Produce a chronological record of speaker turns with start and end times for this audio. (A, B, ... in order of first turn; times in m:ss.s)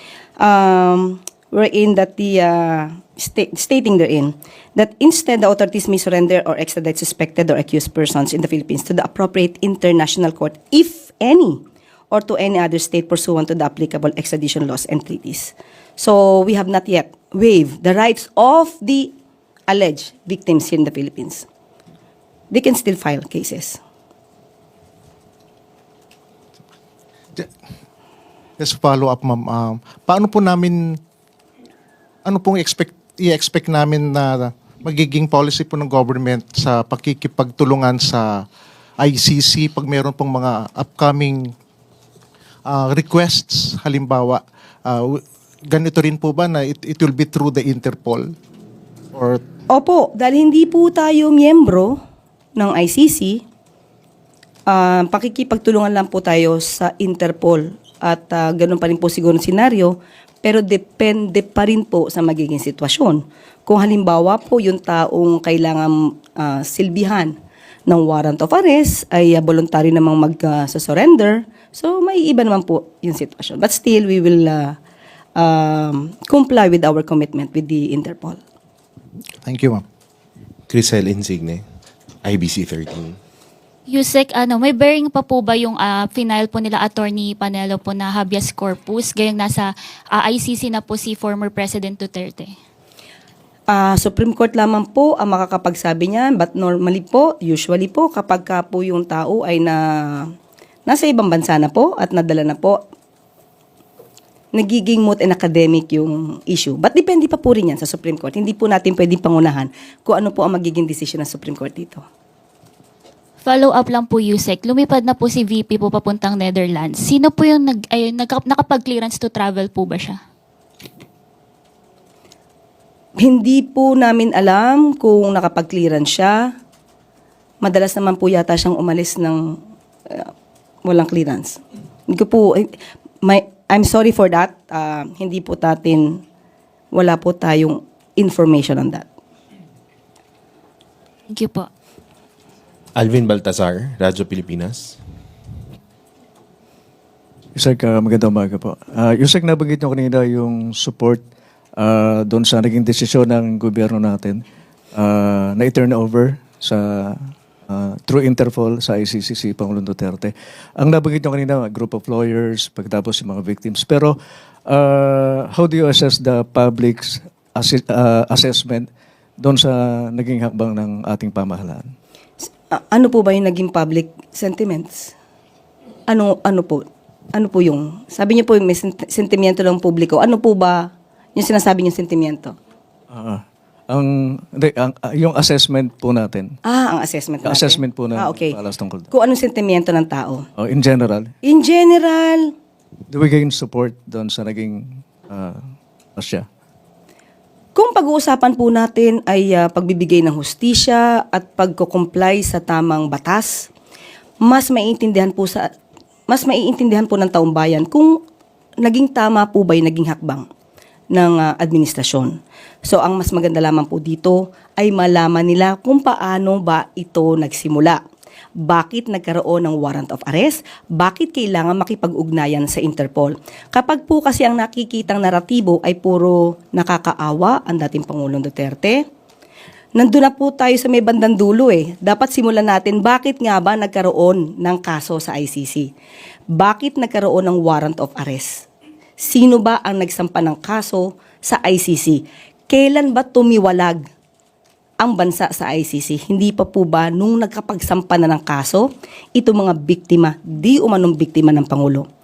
0:00.4-0:19.1 A
0:19.7-0:21.4 A
0:22.5-0:23.8 A
0:28.6-0:31.0 B
0:32.2-0:38.5 B
0:39.0-0:41.5 B
0:42.6-0:48.3 B
0:49.1-0:49.4 B
0:49.7-0:52.0 A
0:52.6-0:53.4 A
0:54.7-1:07.4 A
1:07.9-1:14.8 A
1:15.4-1:18.4 A
1:19.4-1:19.8 B
1:20.7-1:21.6 C
1:22.2-1:23.1 C
1:23.9-1:32.5 D
1:33.7-1:40.3 A
1:40.9-1:42.8 A
1:44.6-1:52.0 A
1:53.4-2:00.2 D
2:03.2-2:06.5 A
2:07.6-2:09.4 A
2:10.1-2:10.3 A
2:10.8-2:12.7 A
2:13.2-2:16.2 A
2:16.9-2:19.0 A
2:21.3-2:21.7 D
2:23.0-2:24.9 C
2:27.6-2:31.2 E
2:31.8-2:34.4 E
2:34.9-2:51.9 E
2:52.7-2:55.1 A
2:56.1-2:56.8 A
2:57.4-3:02.5 A
3:03.1-3:06.6 E
3:06.6-3:08.6 A
3:07.4-3:09.1 E
3:09.1-3:10.4 A
3:10.6-3:11.3 E
3:11.4-3:12.5 A
3:13.1-3:15.6 E
3:16.2-3:16.5 E
3:17.7-3:23.7 A
3:24.4-3:25.7 A
3:26.3-3:28.2 A
3:28.8-3:30.4 A
3:31.1-3:38.0 A
3:38.6-3:49.0 A
3:50.0-3:55.9 A
3:56.5-3:58.7 A
3:59.2-4:04.0 A
4:05.0-4:12.1 A